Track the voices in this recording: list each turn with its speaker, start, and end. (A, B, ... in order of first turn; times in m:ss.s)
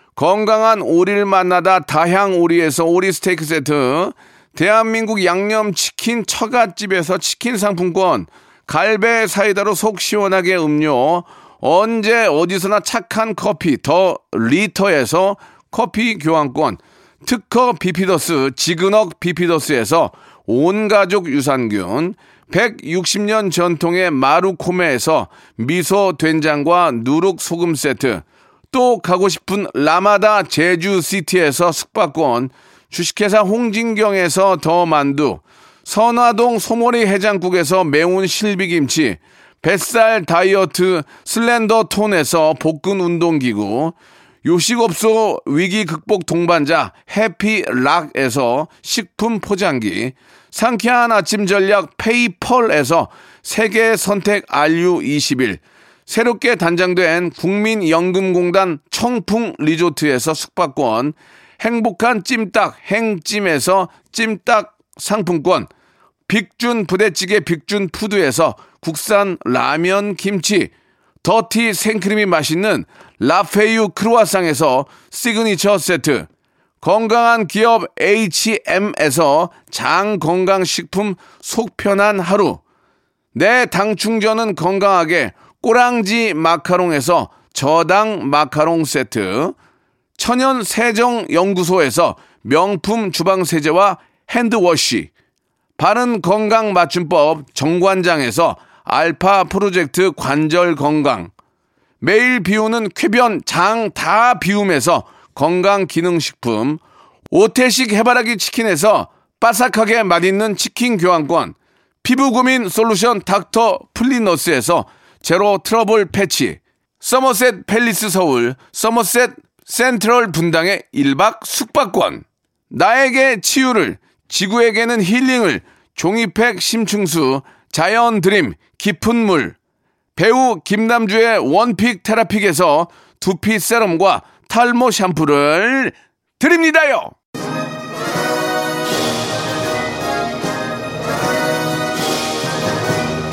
0:00.2-1:05.7 A
1:06.3-1:10.7 A
1:11.2-1:16.3 A
1:16.8-1:22.6 A
1:23.3-1:29.5 A
1:30.2-1:35.1 A
1:35.8-1:41.3 A
1:42.0-2:09.6 A
2:10.2-2:17.1 A